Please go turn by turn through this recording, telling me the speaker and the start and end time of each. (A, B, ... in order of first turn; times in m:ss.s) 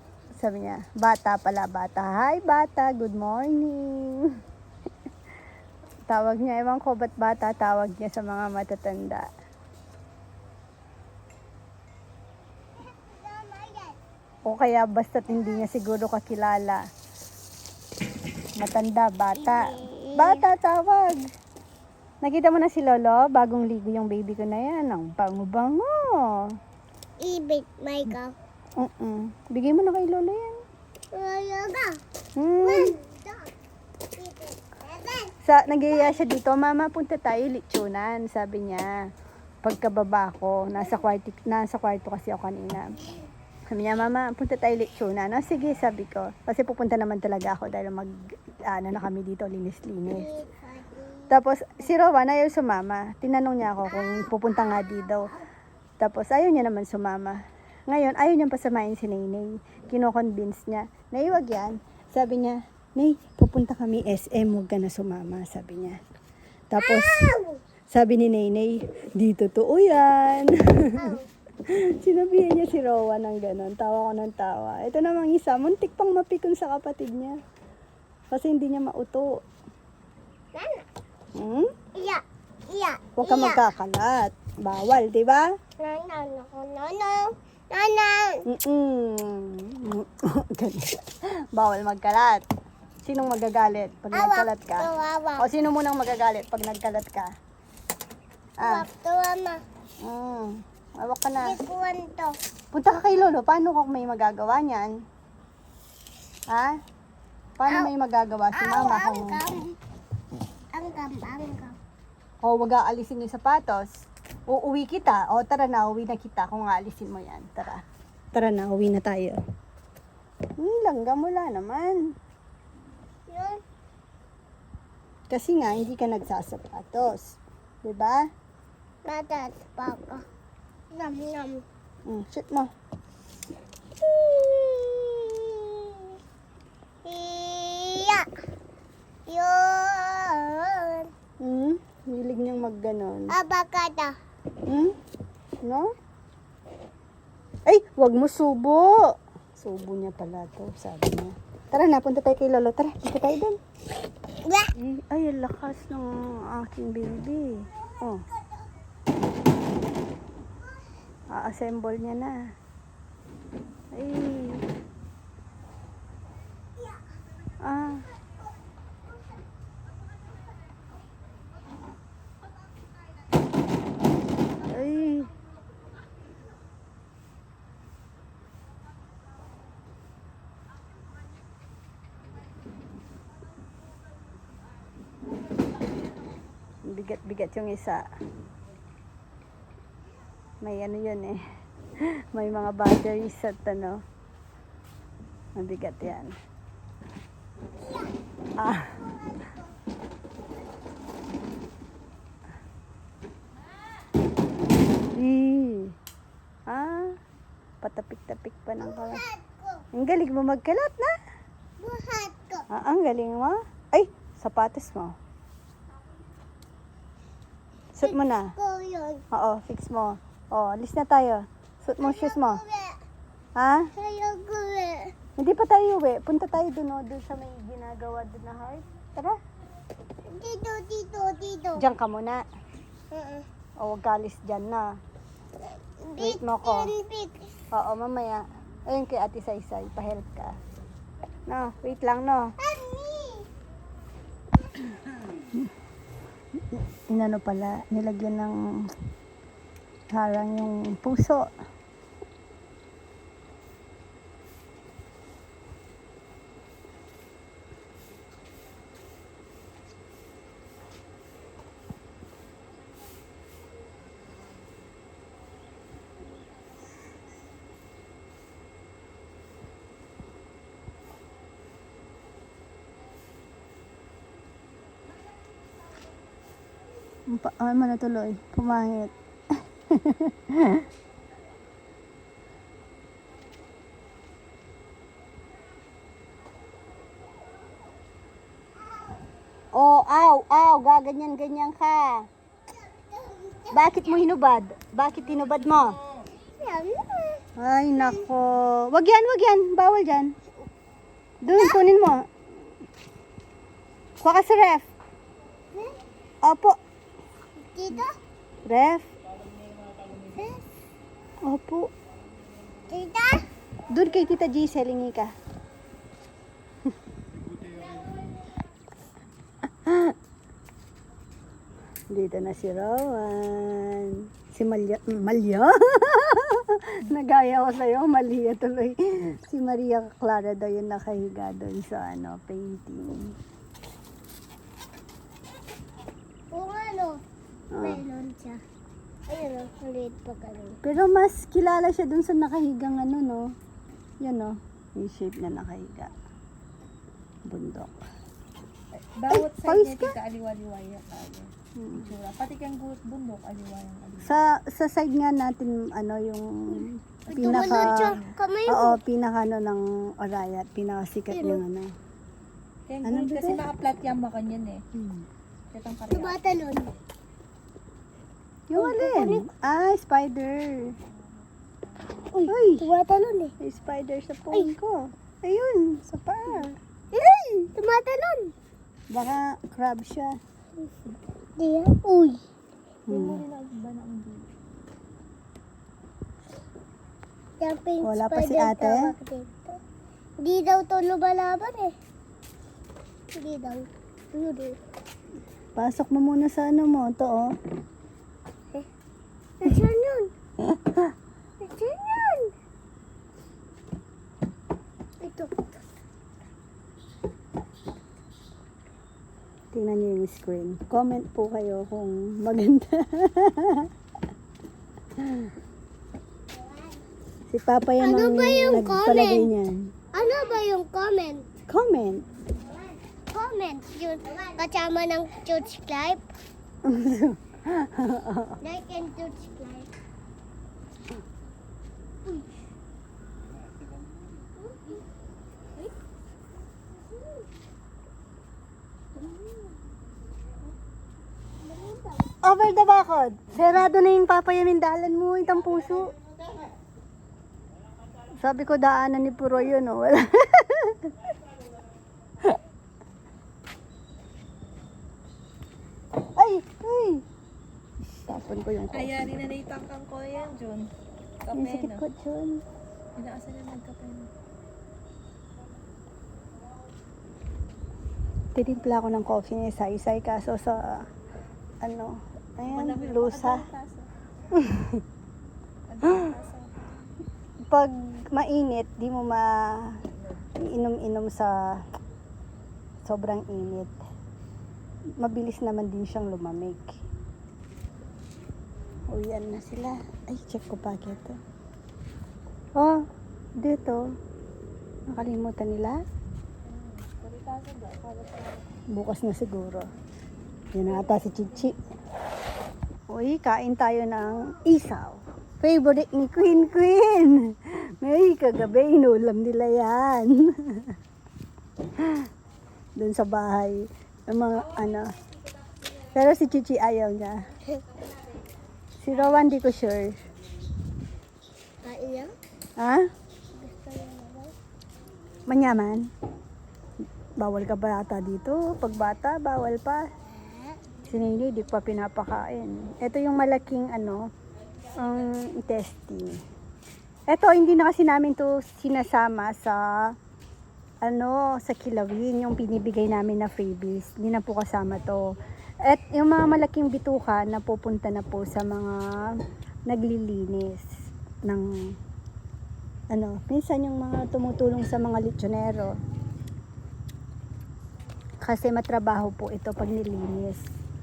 0:00.4-0:04.4 A
0:06.1-0:09.3 A
0:12.8-0:14.0 B
0:14.4-0:16.8 A
0:18.6-0:21.2 A
0:19.4-0:20.4 B
0:22.2-0:26.5 A
0:27.2-0:28.3 B
0:28.8-0:30.6 A
0:31.1-0:32.0 B
0:32.4-0:32.9 A
0:32.6-0:33.5 B
0:34.1-0:35.3 B
0:35.4-0:39.0 A
0:35.9-0:36.2 B
0:39.6-0:43.0 A
0:43.7-0:50.3 A
0:50.1-0:51.3 B
0:51.3-0:55.3 A
0:53.9-0:55.4 B
0:56.0-1:06.0 A
1:06.7-1:07.3 A
1:06.8-1:07.6 B
1:07.9-1:17.4 A
1:10.9-1:11.3 B
1:18.3-1:19.4 A
1:20.5-1:20.8 B
1:21.3-1:21.7 A
1:21.9-1:23.6 B
1:23.2-1:25.5 A
1:25.8-1:28.4 B
1:28.5-1:32.4 A
1:33.0-1:37.3 A
1:34.1-1:35.5 B
1:38.6-1:38.8 A
1:38.6-1:39.6 B
1:40.0-1:41.6 A
1:41.4-1:42.4 B
1:42.7-1:45.0 A
1:46.5-1:46.8 A
1:47.6-1:49.4 A
1:47.6-1:47.9 B
1:48.5-1:49.8 B
1:50.7-1:51.8 B
1:52.4-1:57.8 A
1:58.3-1:59.4 A
2:00.6-2:02.1 A
2:03.3-2:03.6 B
2:05.3-2:08.3 A
2:09.0-2:10.2 B
2:10.9-2:11.6 B
2:12.0-2:12.7 A
2:14.0-2:16.1 B
2:17.0-2:18.3 B
2:19.3-2:21.1 B
2:21.4-2:23.3 A
2:23.3-2:24.2 B
2:24.6-2:24.9 A
2:25.6-2:25.9 A
2:27.7-2:29.0 A
2:29.6-2:33.6 A
2:34.4-2:34.7 B
2:34.7-2:38.2 A
2:38.3-2:38.6 B
2:41.3-2:42.4 A
2:43.9-2:44.6 A
2:47.6-2:48.0 A
2:54.7-2:55.3 A
3:06.8-3:08.0 A
3:10.6-3:11.4 A
3:12.0-3:14.0 A
3:15.6-3:16.3 A
3:18.6-3:19.0 A
3:19.0-3:19.6 B
3:25.1-3:26.0 A
3:26.7-3:27.2 A
3:27.8-3:29.2 A
3:28.8-3:29.8 B
3:29.9-3:31.2 A
3:31.8-3:32.7 B
3:32.7-3:35.2 A
3:37.9-3:38.5 A
3:38.0-3:39.2 B
3:39.3-3:42.6 A
3:42.0-3:43.0 B
3:43.6-3:43.9 A
3:44.0-3:45.1 B
3:45.4-3:49.4 A
3:50.3-3:51.8 B
3:51.8-3:52.4 A
3:53.1-3:53.4 B
3:53.8-3:54.9 A
3:56.0-3:57.5 B
3:56.2-3:56.9 A
3:57.7-4:00.6 A
4:01.5-4:02.5 A
4:02.6-4:03.4 B
4:06.7-4:08.9 A
4:10.1-4:11.5 A
4:37.3-4:40.8 A
4:49.7-4:52.3 A
4:52.9-4:54.2 B
4:53.7-4:56.0 A
4:56.5-4:57.4 B
4:57.6-5:00.3 A
5:01.4-5:02.3 A
5:01.5-5:01.8 B
5:04.2-5:04.9 A
5:06.4-5:06.8 A
5:07.6-5:08.2 B
5:08.6-5:09.1 A
5:10.3-5:10.6 B
5:11.4-5:11.9 A
5:12.9-5:13.4 B
5:13.9-5:15.3 A
5:17.8-5:18.1 B
5:19.8-5:20.1 A
5:22.1-5:33.3 A
5:36.5-5:37.2 B
5:37.7-5:38.0 A
5:37.8-5:38.6 B
5:39.3-5:40.8 B
5:40.8-5:43.5 A
5:44.2-5:46.1 A
5:47.4-5:48.0 A
5:48.9-5:54.3 C
5:49.3-5:50.1 A
5:51.8-5:52.1 A
5:54.2-6:01.9 A
5:57.3-5:59.0 B
5:57.3-5:58.3 C
6:01.3-6:01.6 B
6:02.9-6:04.8 C
6:03.0-6:03.6 A
6:04.9-6:05.2 A
6:05.7-6:06.4 C
6:06.1-6:06.9 B
6:08.7-6:11.0 A
6:08.8-6:09.5 B
6:12.3-6:13.5 B
6:12.5-6:12.9 A
6:13.6-6:16.8 A
6:17.5-6:18.5 B
6:19.1-6:20.4 A
6:21.6-6:22.4 B
6:23.1-6:23.4 A
6:23.1-6:24.5 C
6:27.6-6:29.8 B
6:28.0-6:29.1 A
6:30.4-6:31.9 B
6:33.3-6:34.8 B
6:35.8-6:37.5 A
6:39.6-6:40.3 B
6:40.6-6:41.1 A
6:41.6-6:42.5 B
6:45.2-6:45.8 B
6:49.7-6:53.9 A
6:55.2-6:55.5 A
6:56.5-6:57.0 B
6:57.5-6:59.9 A
6:58.0-6:59.5 B
7:00.1-7:01.5 B
7:01.7-7:02.2 A
7:03.3-7:06.3 B
7:06.8-7:08.6 A
7:08.6-7:09.9 B
7:21.6-7:22.2 B
7:22.4-7:26.1 A
7:28.4-7:31.2 A
7:36.4-7:37.2 A
7:38.2-7:39.3 A
7:38.9-7:40.9 C
7:41.4-7:42.0 C
7:41.5-7:42.6 A
7:43.2-7:44.3 C
7:48.5-7:51.1 A
7:51.8-7:53.6 A
7:52.7-7:54.1 C
7:54.5-7:55.0 A
7:55.9-7:56.8 C
7:56.1-7:56.3 A
7:57.7-8:00.0 A
8:00.6-8:01.8 A
8:03.0-8:04.0 A
8:05.2-8:07.0 A
8:09.1-8:11.4 A
8:13.6-8:14.1 A
8:15.1-8:16.0 A
8:16.7-8:18.7 C
8:18.9-8:19.9 A
8:20.7-8:21.8 A
8:23.1-8:31.0 A
8:32.0-8:32.3 A
8:33.0-8:35.1 A
8:36.1-8:37.5 A
8:39.0-8:40.2 A
8:41.8-8:42.3 B
8:42.8-8:43.1 A
8:43.6-8:44.5 B
8:45.5-8:46.1 A
8:47.4-8:50.1 A
8:50.3-8:50.8 B
8:51.1-8:54.3 A
8:55.0-8:56.4 A
8:57.3-9:00.1 A
9:01.0-9:10.9 A
9:11.4-9:12.0 A
9:13.1-9:16.0 A
9:18.4-9:20.7 A